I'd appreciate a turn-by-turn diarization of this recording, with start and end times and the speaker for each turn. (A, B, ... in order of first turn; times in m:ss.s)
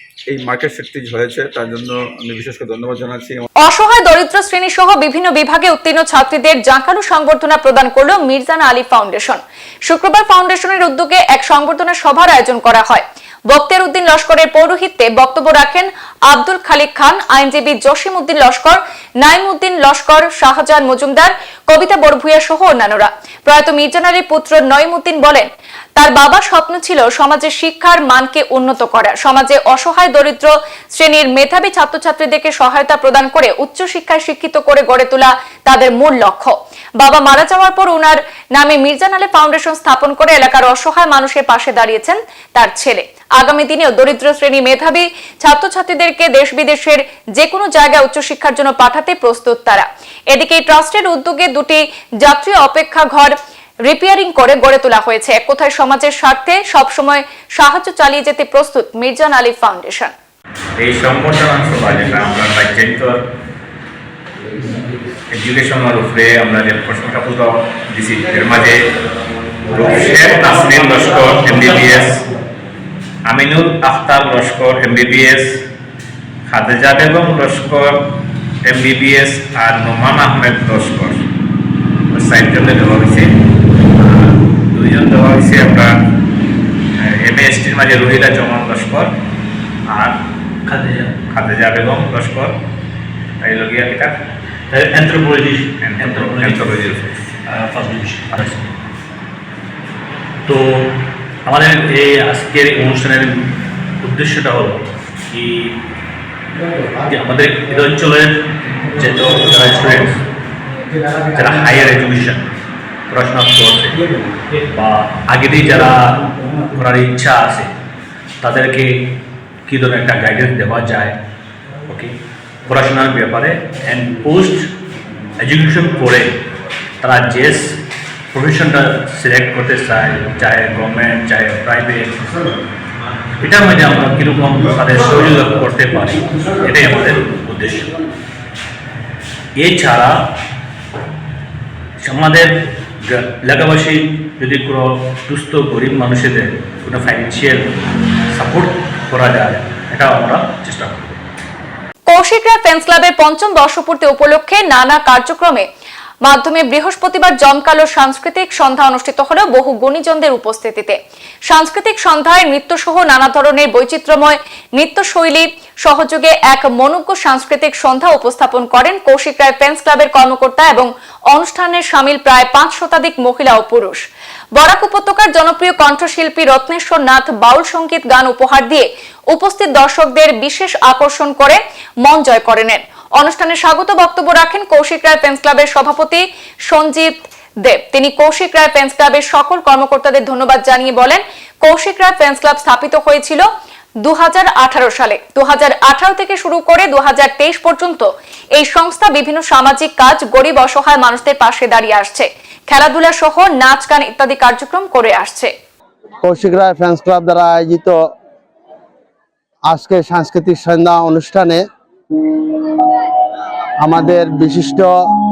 0:00.3-0:03.5 A
0:03.6-0:53.3 B
0:53.9-1:00.1 B
1:00.8-1:03.2 C
1:05.3-1:08.8 C
1:09.7-1:12.2 C
1:13.3-1:15.6 C
1:16.5-1:18.0 C
1:18.6-1:21.2 C
1:22.1-1:23.3 C
1:24.0-1:25.9 C
1:27.0-1:29.1 C
1:29.9-1:30.2 C
1:30.7-1:31.2 D
1:31.3-1:32.6 C
1:33.4-1:34.2 C
1:34.7-1:38.7 D
1:35.8-1:37.2 C
1:40.5-1:40.9 D
1:41.5-1:43.4 D
1:44.0-1:45.8 D
1:47.1-1:50.2 D
1:51.3-1:52.4 D
1:53.1-1:54.0 D
1:54.7-1:57.7 D
1:58.4-1:58.9 D
1:59.7-2:01.2 D
2:01.9-2:02.1 D
2:02.7-2:04.7 D
2:05.4-2:06.4 D
2:07.0-2:07.7 D
2:08.3-2:12.2 D
2:13.4-2:17.9 D
2:19.6-2:20.2 D
2:22.0-2:22.5 D
2:23.1-2:27.7 D
2:28.3-2:31.2 D
2:32.1-2:35.7 B
2:36.2-2:41.0 B
2:41.5-2:54.0 B
2:54.6-3:13.5 B
3:14.0-3:25.5 B
3:26.2-3:28.0 E
3:29.7-3:31.6 E
3:33.8-3:35.0 E